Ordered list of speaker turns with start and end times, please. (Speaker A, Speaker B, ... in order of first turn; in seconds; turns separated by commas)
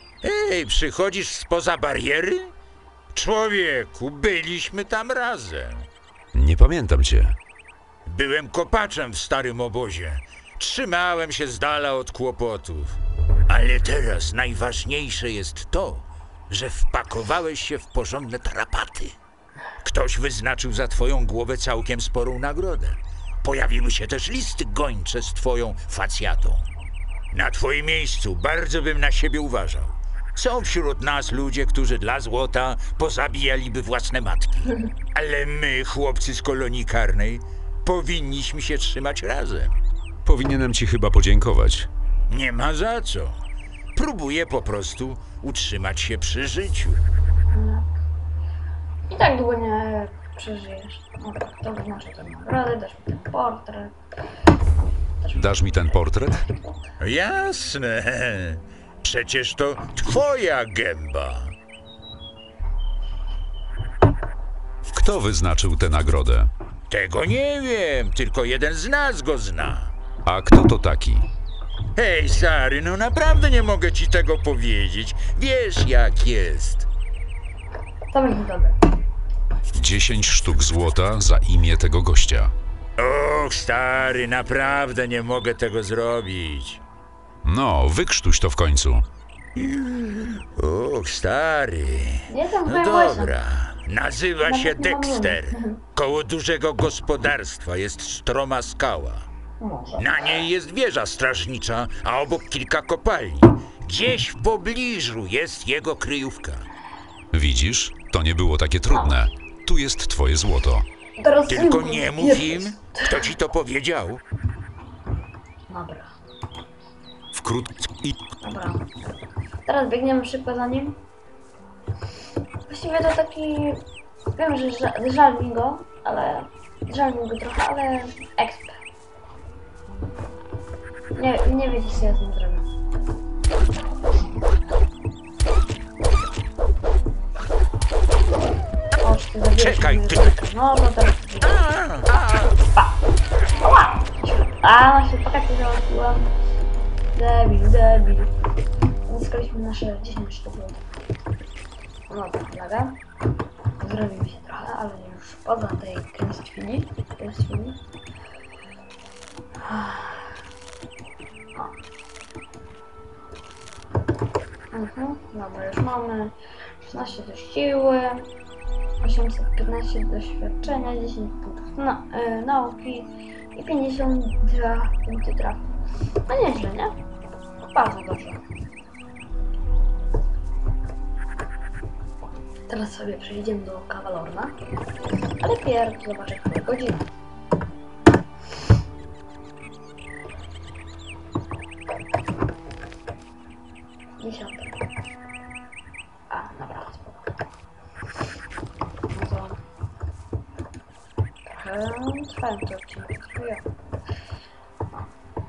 Speaker A: 0.2-2.5, Speaker A: 3.1-5.9, Speaker B: 6.3-7.3, Speaker A: 8.1-19.1, Speaker A: 19.8-26.7, Speaker A: 27.3-39.8, Speaker B: 40.2-41.9, Speaker A: 42.3-43.3, Speaker A: 43.9-47.0, Speaker C: 47.5-47.9, Speaker C: 49.1-54.0, Speaker C: 55.2-55.9, Speaker B: 55.3-56.5, Speaker A: 57.0-61.5, Speaker B: 64.9-66.5, Speaker A: 66.9-69.9, Speaker B: 70.2-71.2, Speaker A: 72.0-76.9, Speaker C: 78.1-78.8, Speaker B: 79.7-82.5, Speaker A: 83.0-86.8, Speaker B: 87.4-89.0, Speaker A: 89.5-99.3, Speaker C: 92.3-93.3, Speaker C: 94.4-95.8, Speaker C: 99.6-100.1, Speaker A: 100.0-106.7, Speaker B: 107.3-110.8, Speaker C: 108.9-109.2, Speaker C: 111.2-113.3, Speaker A: 111.5-114.2, Speaker C: 115.7-116.1, Speaker B: 117.3-118.2, Speaker C: 118.4-121.0, Speaker C: 122.7-123.8, Speaker C: 124.3-128.8, Speaker C: 131.1-132.7, Speaker C: 139.0-141.6, Speaker A: 139.6-140.3, Speaker A: 141.4-142.6, Speaker C: 143.6-146.3, Speaker C: 147.1-148.3, Speaker C: 149.1-150.8, Speaker C: 152.1-153.0, Speaker C: 153.8-157.8, Speaker C: 159.6-160.4, Speaker C: 164.7-168.3, Speaker C: 169.0-175.6, Speaker C: 176.3-176.9, Speaker C: 177.7-178.4, Speaker C: 182.7-184.5, Speaker C: 185.4-187.1, Speaker C: 194.2-194.8, Speaker C: 196.3-197.2, Speaker C: 199.1-199.6, Speaker C: 201.4-203.6